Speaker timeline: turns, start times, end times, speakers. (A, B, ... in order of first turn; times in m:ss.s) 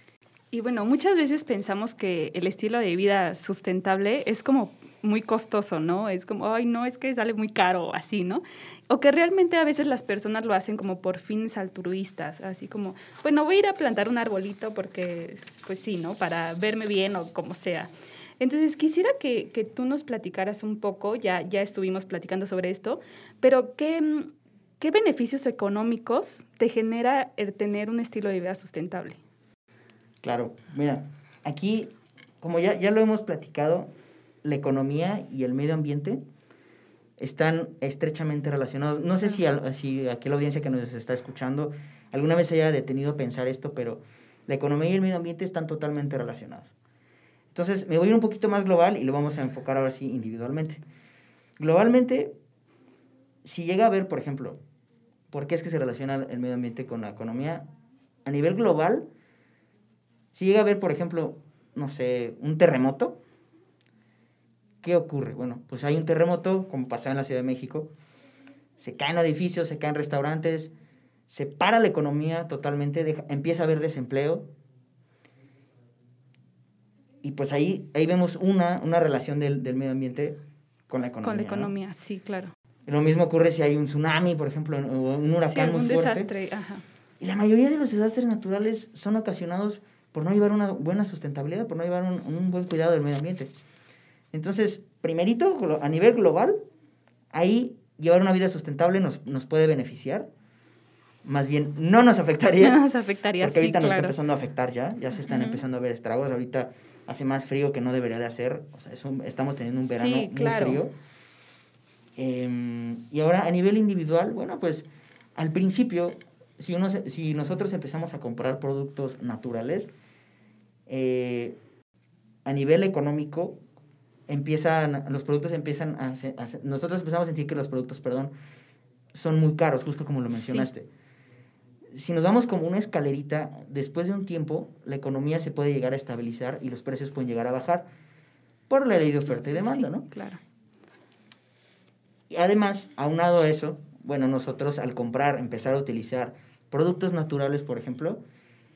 0:00.5-0:29.2 A
0:30.2-0:33.9 B
0:34.4-0:36.2 B
0:37.2-0:46.7 B
0:47.5-0:50.8 B
0:51.6-0:52.3 B
0:53.4-0:54.6 B
0:55.3-0:57.7 B
0:58.2-0:59.1 B
1:00.3-1:03.2 B
1:04.8-1:07.9 B
1:08.8-1:10.7 B
1:11.3-1:14.5 B
1:17.2-1:21.7 B
1:21.2-1:22.5 A
1:22.9-1:26.3 B
1:25.5-1:26.8 A
1:27.2-1:33.5 B
1:34.3-1:36.6 B
1:37.3-1:40.3 B
1:41.2-1:42.8 B
1:42.6-1:44.2 A
1:43.4-1:50.9 B
1:49.9-1:50.8 A
1:52.2-1:59.9 B
2:00.9-2:01.6 B
2:02.4-2:03.6 B
2:04.3-2:08.3 B
2:09.1-2:10.9 B
2:10.3-2:10.7 A
2:11.9-2:17.9 B
2:18.7-2:20.1 B
2:19.6-2:20.4 A
2:22.3-2:28.2 B